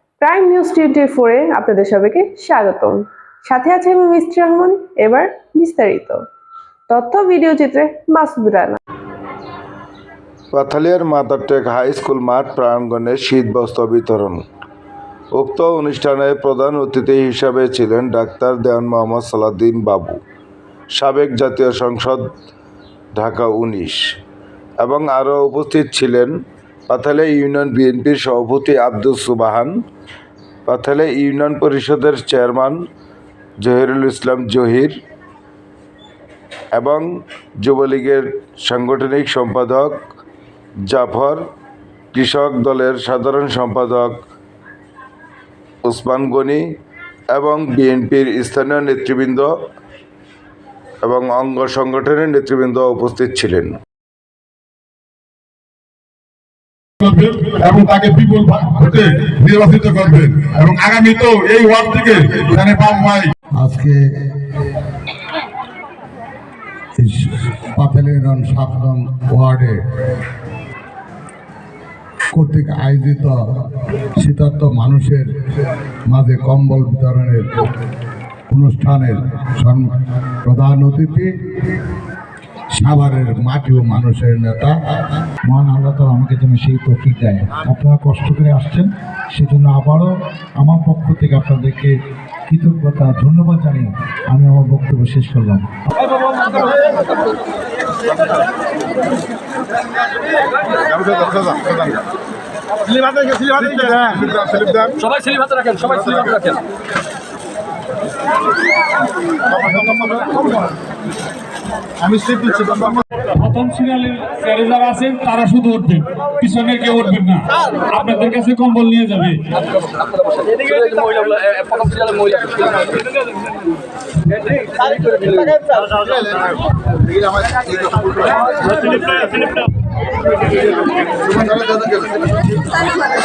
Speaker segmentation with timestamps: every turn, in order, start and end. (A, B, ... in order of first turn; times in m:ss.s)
0:00.2-0:06.2 A
0:06.9-0:08.8 A
0:10.5-0:14.4 B
0:15.4-0:20.2 B
0:21.0-0:22.2 B
0:23.2-0:24.0 B
0:24.8-0:26.4 B
0:26.9-0:29.7 B
0:30.7-0:32.8 B
0:33.6-0:35.0 B
0:36.8-0:37.1 B
0:37.6-0:40.0 B
0:40.9-0:41.4 B
0:42.1-0:44.1 B
0:45.9-0:46.6 B
0:47.3-0:49.5 B
0:51.0-0:53.8 B
0:57.0-1:03.3 C
1:03.6-1:04.0 D
1:07.0-1:09.8 D
1:12.3-1:13.4 D
1:14.2-1:15.3 D
1:16.1-1:17.5 D
1:18.5-1:19.9 D
1:20.4-1:21.3 D
1:22.8-1:24.8 D
1:25.4-1:35.7 E
1:43.9-1:44.3 E
1:44.5-1:46.5 F
1:52.2-1:52.9 F
1:53.3-1:59.4 G
2:00.7-2:01.0 G
2:01.0-2:02.4 F
2:01.9-2:02.2 G
2:05.1-2:05.7 F